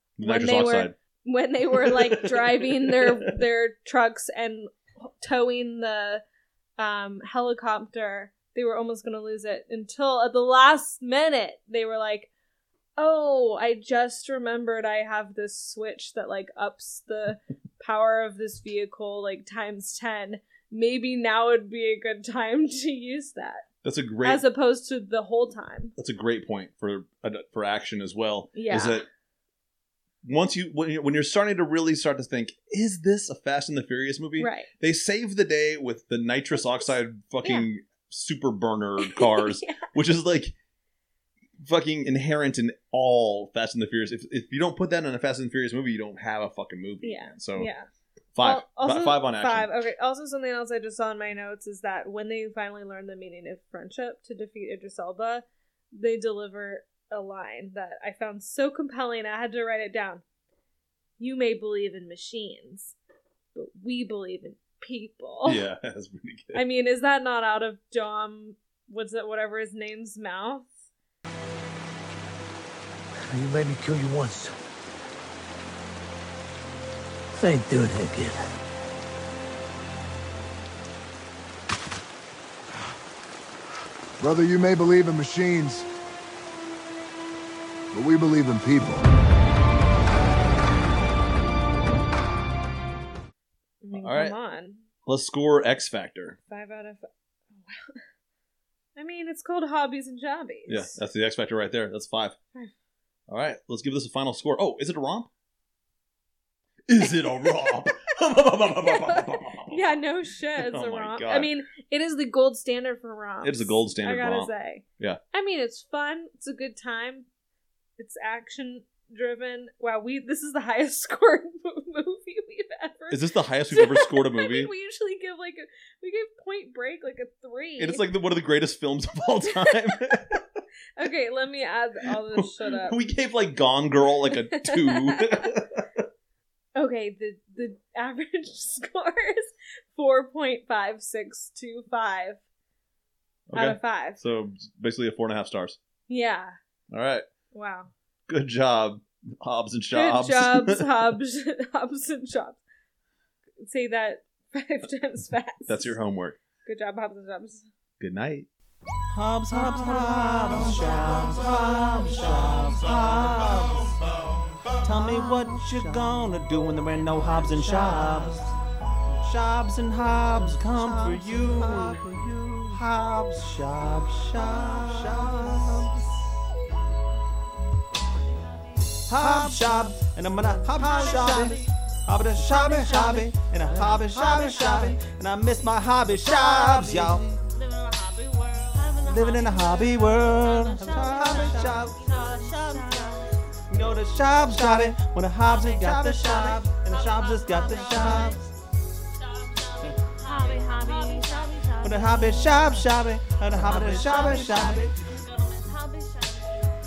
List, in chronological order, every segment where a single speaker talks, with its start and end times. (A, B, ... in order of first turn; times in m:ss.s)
0:00.2-0:01.0 A
0:00.2-0:06.2 B
0:01.8-0:03.2 A
0:06.8-0:12.3 B
0:13.0-0:23.6 B
0:23.8-0:24.4 A
0:24.2-0:25.9 B
0:26.0-0:29.0 A
0:28.6-0:29.0 B
0:30.2-0:40.5 A
0:34.4-0:34.7 B
0:39.0-0:39.9 B
0:41.6-0:47.7 A
0:47.0-0:47.9 B
0:48.3-0:49.7 A
0:48.4-1:00.2 B
1:01.2-1:03.0 B
1:03.6-1:05.6 B
1:05.4-1:06.6 A
1:06.5-1:10.7 B
1:13.3-1:14.6 C
1:17.3-1:18.4 C
1:24.2-1:25.9 D
1:27.9-1:29.0 D
1:33.8-1:34.8 B
1:33.9-1:34.4 A
1:35.0-1:36.4 A
1:36.5-1:38.0 B
1:39.0-1:41.0 B
1:40.7-1:42.4 A
1:43.3-1:45.3 A
1:46.9-1:49.9 A
1:47.0-1:48.1 B
1:48.8-1:57.3 B
1:50.6-1:51.5 A
1:53.4-1:55.2 A
1:58.0-2:08.0 B
2:03.1-2:04.7 A
2:07.8-2:10.4 A
2:09.4-2:10.2 B
2:11.0-2:13.0 B
2:12.3-2:16.0 A
2:14.3-2:15.4 B
2:16.7-2:22.4 B
2:23.5-2:25.8 A
2:23.6-2:24.2 B
2:26.1-2:26.5 B
2:26.9-2:27.2 A
2:27.5-2:27.9 B
2:28.3-2:30.9 A
2:29.9-2:32.6 B
2:33.6-2:36.0 B
2:35.7-2:36.4 A
2:36.6-2:37.7 B
2:38.0-2:38.5 A
2:39.1-2:43.9 E
2:44.8-2:48.5 E
2:49.1-2:56.0 E
2:59.0-3:07.3 E
3:07.6-3:09.0 B
3:09.0-3:12.0 E
3:11.2-3:13.2 B
3:13.7-3:18.4 E
3:17.8-3:18.3 B
3:19.6-3:21.9 B
3:21.8-3:25.0 E
3:23.9-3:24.8 B
3:25.3-3:26.4 B